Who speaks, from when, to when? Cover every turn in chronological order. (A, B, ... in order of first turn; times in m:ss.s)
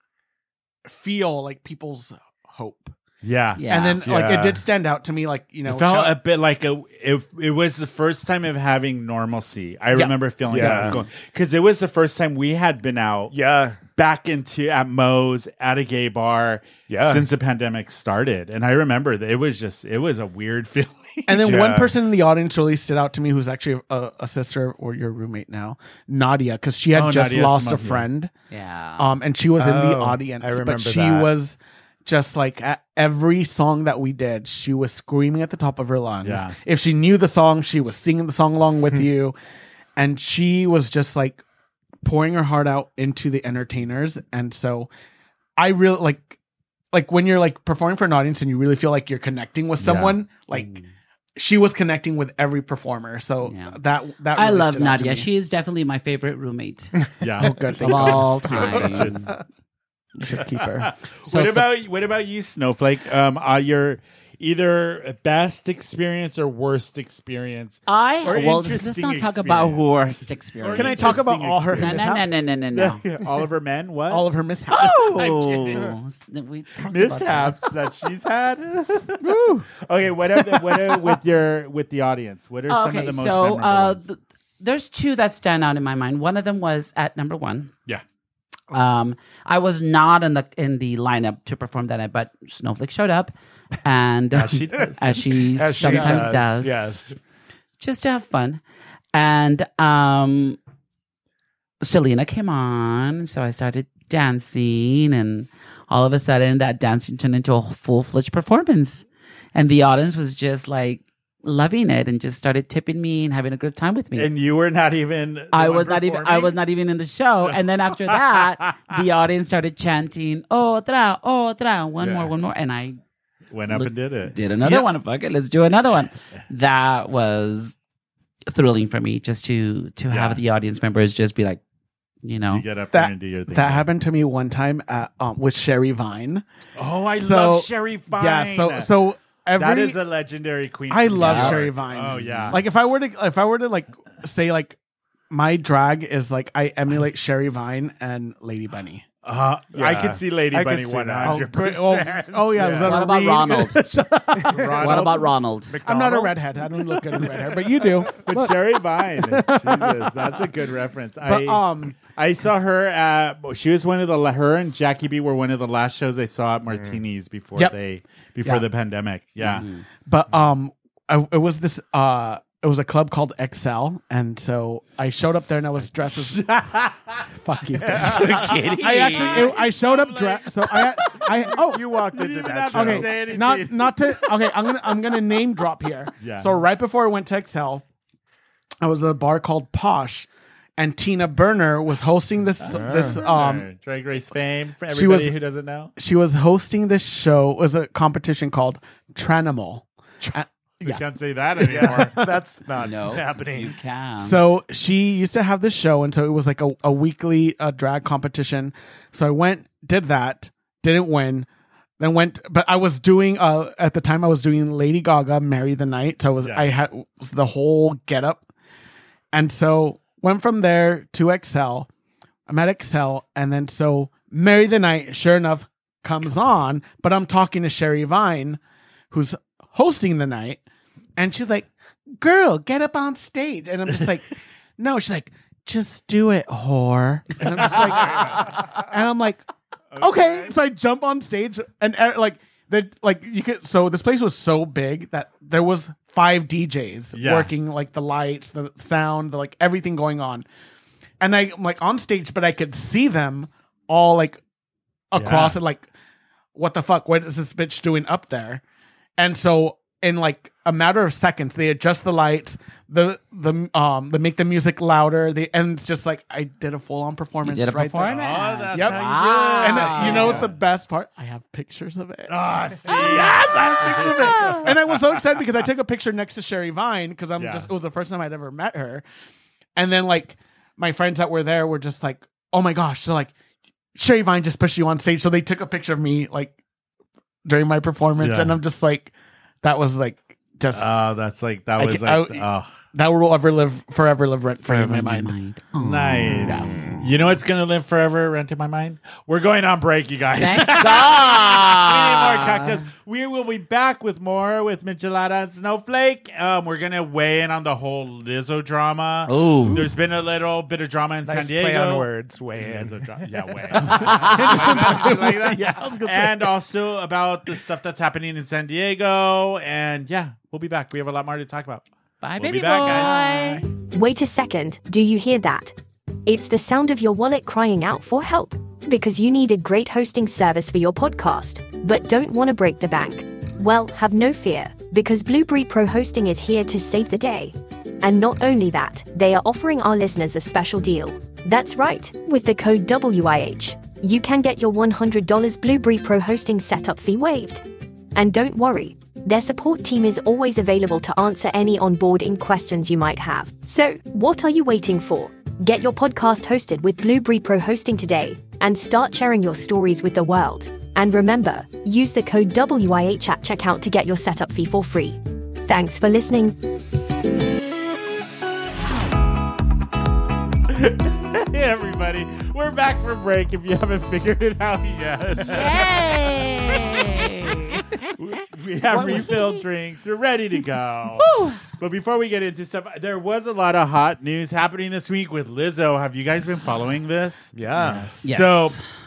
0:00.8-0:03.0 A
0:03.2-0:03.6 B
0:03.6-0:04.0 C
0:03.6-0:06.2 A
0:04.0-0:04.6 D
0:05.6-0:13.3 B
0:09.9-0:11.0 A
0:10.5-0:11.0 D
0:13.3-0:13.8 D
0:13.9-0:21.7 B
0:16.9-0:17.3 D
0:21.3-0:28.3 A
0:21.4-0:21.9 D
0:26.9-0:28.0 B
0:28.5-0:29.1 C
0:29.0-0:39.3 A
0:29.6-0:31.3 D
0:36.2-0:36.5 B
0:40.0-0:41.4 A
0:42.0-0:44.9 A
0:45.6-0:46.4 A
0:46.9-0:50.7 A
0:49.8-0:50.2 B
0:50.5-0:50.8 C
0:51.4-0:55.3 A
0:53.4-0:53.8 C
0:54.3-0:57.0 C
0:57.2-0:59.3 B
0:57.4-0:59.3 A
0:57.8-0:59.3 C
1:00.2-1:00.9 A
1:00.4-1:09.8 B
1:01.2-1:01.7 C
1:07.9-1:13.0 C
1:10.6-1:12.0 B
1:10.7-1:12.4 A
1:12.7-1:15.9 B
1:14.1-1:15.2 A
1:14.7-1:17.7 C
1:16.8-1:24.0 B
1:19.2-1:19.7 A
1:22.7-1:27.7 C
1:28.7-1:33.3 C
1:33.8-1:36.9 C
1:34.3-1:35.2 B
1:35.5-1:37.2 D
1:35.8-1:36.4 A
1:37.8-1:38.6 C
1:39.1-1:40.6 C
1:41.8-1:54.3 C
1:54.2-1:56.5 B
1:55.5-2:03.0 C
1:57.9-1:58.2 B
2:03.5-2:04.3 B
2:03.7-2:07.8 C
2:08.5-2:11.6 C
2:10.1-2:10.4 B
2:12.2-2:12.6 C
2:12.5-2:13.8 B
2:12.9-2:16.4 A
2:16.8-2:18.9 B
2:17.1-2:20.0 A
2:19.6-2:22.6 B
2:20.9-2:24.8 A
2:21.2-2:21.6 C
2:22.2-2:22.6 C
2:25.3-2:29.0 A
2:29.2-2:32.9 B
2:29.7-2:31.5 D
2:31.2-2:35.1 A
2:32.5-2:32.9 D
2:32.8-2:33.9 C
2:34.3-2:35.0 D
2:34.4-2:35.3 B
2:34.7-2:35.8 C
2:35.7-2:36.4 D
2:35.8-2:39.9 A
2:38.2-2:49.6 B
2:41.2-2:42.0 A
2:46.7-2:47.0 D
2:49.4-2:49.8 C
2:50.1-2:56.5 A
2:56.1-2:57.2 B
2:57.4-3:02.0 A
2:57.8-2:58.8 D
2:58.0-2:59.6 C
2:58.1-3:01.5 B
3:01.6-3:03.2 D
3:02.1-3:04.5 B
3:02.7-3:07.8 A
3:06.2-3:06.6 B
3:08.8-3:13.7 A
3:12.6-3:15.9 B
3:12.7-3:13.2 D
3:14.9-3:15.4 A
3:16.0-3:21.0 A
3:20.8-3:22.4 B
3:21.6-3:23.7 D
3:22.8-3:24.5 C
3:24.2-3:31.5 A
3:32.0-3:38.4 A
3:36.4-3:36.7 B
3:39.3-3:41.9 A
3:42.5-3:48.6 A
3:49.1-3:50.6 A
3:51.2-3:54.3 A
3:54.8-3:59.4 A
3:57.4-3:58.5 B
3:59.9-4:00.5 B
4:00.0-4:10.4 A
4:07.1-4:07.5 B
4:11.2-4:14.4 A
4:15.1-4:15.9 A
4:15.1-4:15.6 B
4:16.5-4:18.6 A
4:19.2-4:28.1 A
4:27.4-4:30.5 C
4:28.1-4:30.6 B
4:28.7-4:39.0 A
4:32.3-4:35.2 B
4:32.9-4:34.6 C
4:37.4-4:37.7 B
4:39.8-4:43.3 A
4:43.9-4:46.5 A
4:47.4-4:49.1 A
4:48.2-4:48.6 B
4:49.6-4:51.0 A
4:50.7-4:52.7 B
4:51.8-4:55.3 A
4:54.6-4:56.8 C
4:55.8-5:21.8 B
5:00.4-5:02.8 C
5:09.2-5:09.8 C
5:11.2-5:13.3 D
5:13.8-5:14.2 D
5:13.8-5:15.2 C
5:14.0-5:16.5 A
5:22.2-5:23.6 C
5:22.4-5:23.6 B
5:23.9-5:25.7 E
5:26.2-5:47.6 E
5:48.1-6:06.6 E
6:10.7-6:17.5 B
6:15.4-6:17.8 C
6:18.2-6:28.8 B
6:18.9-6:19.6 C
6:21.2-6:21.6 C
6:27.5-6:28.1 D
6:28.2-6:28.8 C